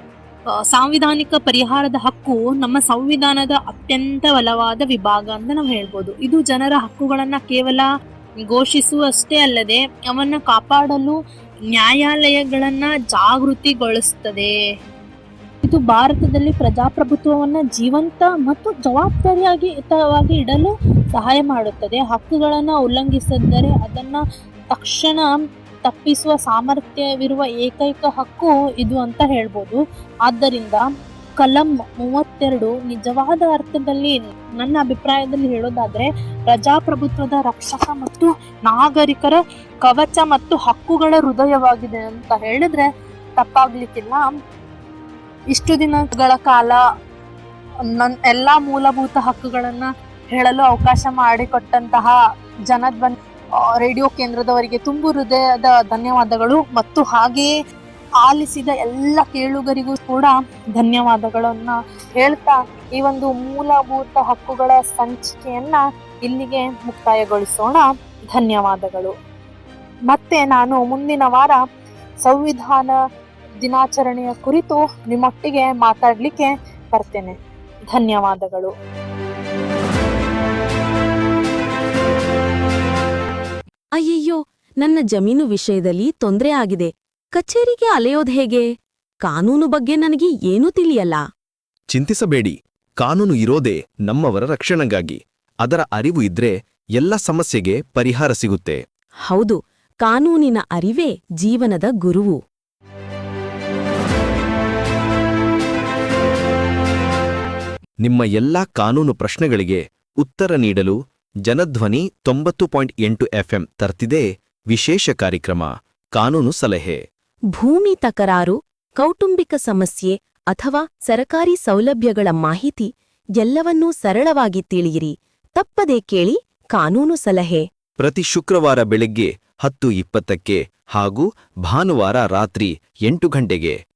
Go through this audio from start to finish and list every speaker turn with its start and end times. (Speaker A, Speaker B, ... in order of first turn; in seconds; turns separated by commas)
Speaker A: 0.7-7.9, Speaker A: 8.5-11.2, Speaker A: 11.7-14.5, Speaker A: 15.6-25.3, Speaker A: 25.8-30.8, Speaker A: 31.4-42.9, Speaker A: 43.4-44.3, Speaker A: 45.5-46.8, Speaker A: 48.0-52.1, Speaker A: 52.7-53.1, Speaker A: 53.7-57.5, Speaker A: 58.2-69.1, Speaker A: 70.1-71.6, Speaker A: 72.2-72.9, Speaker A: 73.6-77.3, Speaker A: 77.9-78.7, Speaker B: 84.0-88.7, Speaker B: 89.2-91.2, Speaker C: 91.9-98.8, Speaker B: 99.3-102.4, Speaker C: 108.0-117.0, Speaker B: 117.5-127.6, Speaker C: 128.0-133.8